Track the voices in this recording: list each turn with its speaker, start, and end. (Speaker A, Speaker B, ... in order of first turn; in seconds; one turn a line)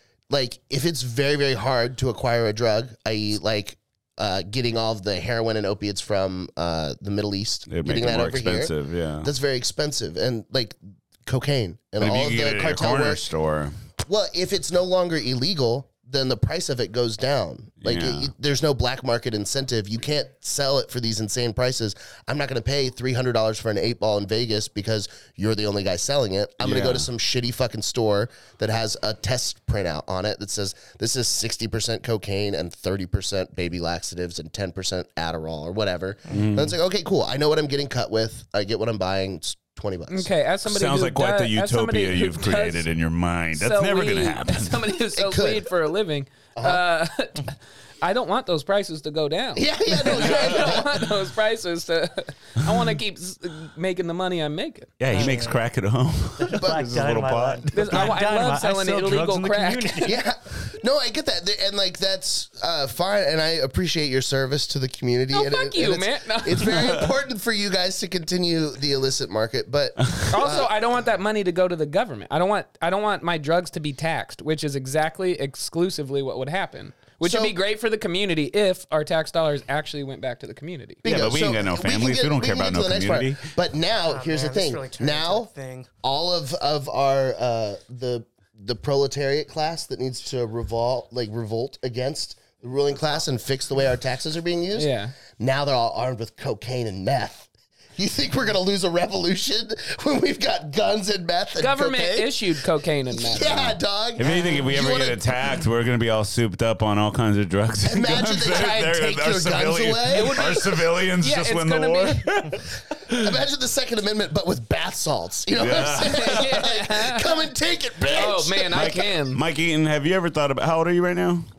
Speaker A: 0.3-13.3
Speaker B: 7.7-9.3
Speaker B: 12.0-13.7
Speaker A: 14.0-40.3
Speaker B: 17.8-18.3
Speaker B: 26.6-27.1
Speaker B: 36.3-36.7
Speaker C: 40.1-42.9
Speaker B: 40.6-44.9
Speaker C: 43.5-54.9
Speaker A: 45.1-45.6
Speaker A: 46.5-46.8
Speaker A: 49.5-51.0
Speaker B: 50.3-50.7
Speaker B: 55.0-58.1
Speaker D: 55.1-55.6
Speaker D: 56.4-60.2
Speaker C: 57.7-60.2
Speaker A: 60.0-70.7
Speaker C: 65.3-67.0
Speaker B: 70.0-70.3
Speaker C: 70.3-81.0
Speaker A: 77.2-77.5
Speaker A: 81.0-85.5
Speaker B: 81.0-83.4
Speaker D: 84.1-85.9
Speaker A: 86.0-105.3
Speaker C: 94.7-95.1
Speaker C: 101.6-104.6
Speaker B: 104.2-113.3
Speaker A: 107.8-110.4
Speaker C: 110.1-112.4
Speaker A: 113.1-119.0
Speaker B: 115.5-116.5
Speaker C: 115.8-117.4
Speaker C: 118.1-119.4
Speaker B: 118.7-121.5